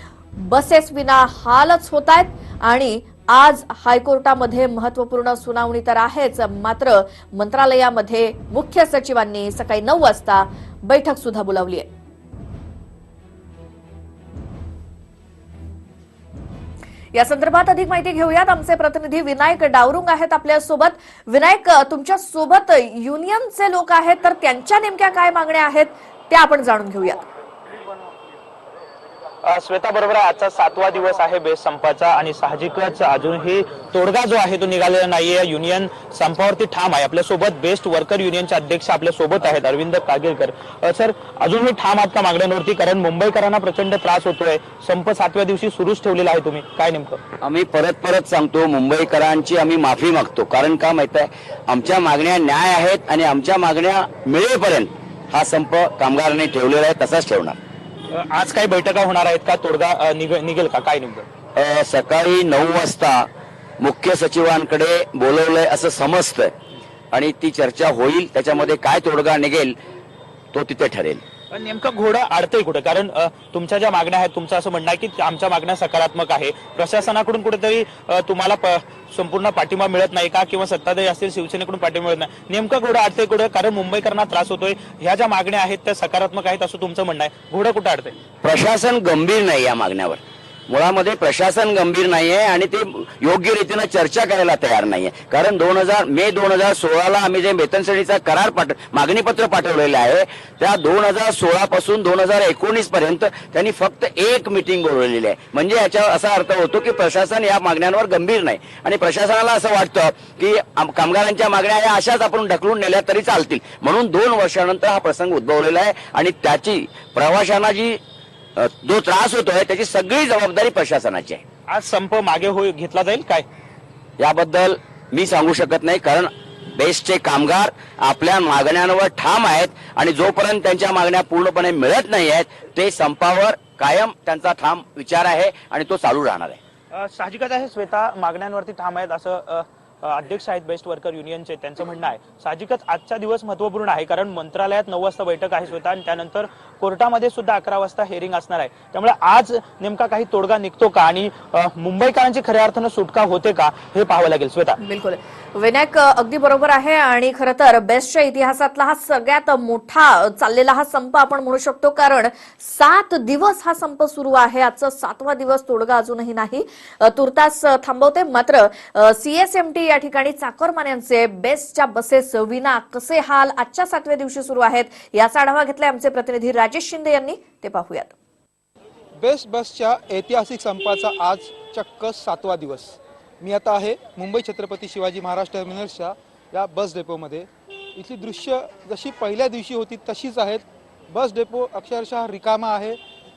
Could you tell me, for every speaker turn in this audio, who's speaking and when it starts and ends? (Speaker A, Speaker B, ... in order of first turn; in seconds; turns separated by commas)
Speaker A: 0.4-11.9, Speaker A: 17.1-27.2, Speaker B: 29.4-47.2, Speaker C: 47.4-57.6, Speaker B: 58.1-61.3, Speaker C: 61.5-63.2, Speaker C: 63.8-66.5, Speaker C: 67.1-69.7, Speaker C: 70.5-71.2, Speaker B: 71.5-88.2, Speaker C: 88.4-118.0, Speaker C: 118.8-121.4, Speaker B: 121.7-123.5, Speaker C: 124.2-136.6, Speaker B: 136.9-154.8, Speaker A: 154.8-178.1, Speaker D: 179.2-193.0